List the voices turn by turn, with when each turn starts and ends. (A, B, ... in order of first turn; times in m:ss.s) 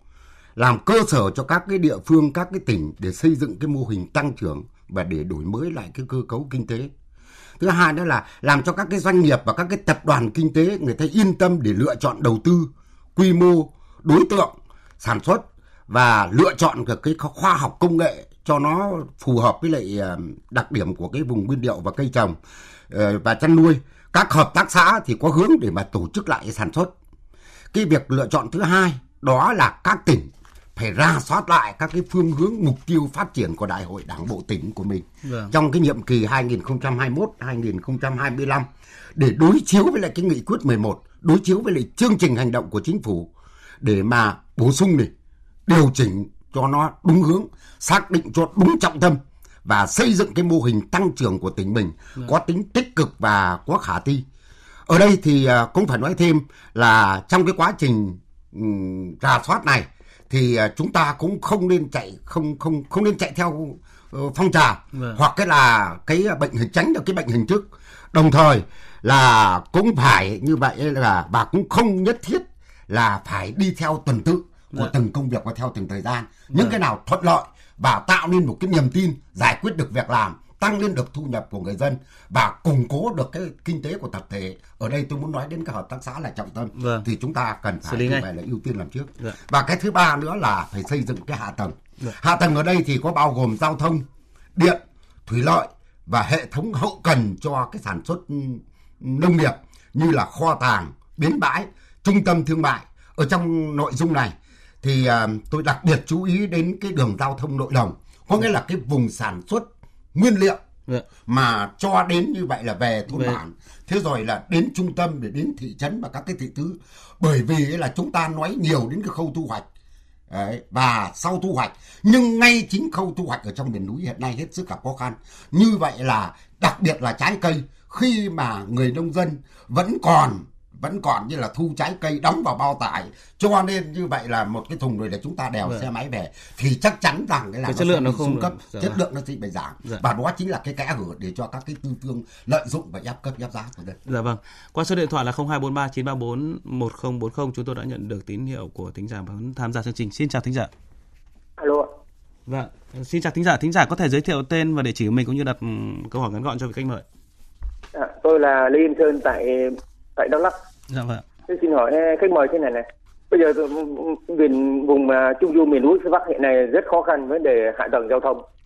0:00.6-0:06.9 A
0:07.6-0:22.4 A
0:22.9-0:26.9 A
0:27.7-0:43.3 A
0:35.2-0:35.5 B
0:43.8-0:45.1 A
0:45.7-0:54.2 A
0:54.9-1:50.6 A
1:04.9-1:05.2 B
1:16.5-1:16.8 B
1:26.8-1:27.0 B
1:27.8-1:28.2 B
1:51.2-1:59.6 A
1:53.1-1:53.4 B
2:00.3-2:24.0 A
2:17.6-2:19.0 B
2:24.0-2:30.7 B
2:31.6-2:31.9 C
2:32.5-2:37.0 B
2:37.9-2:40.6 C
2:40.9-2:41.2 B
2:41.5-2:48.4 C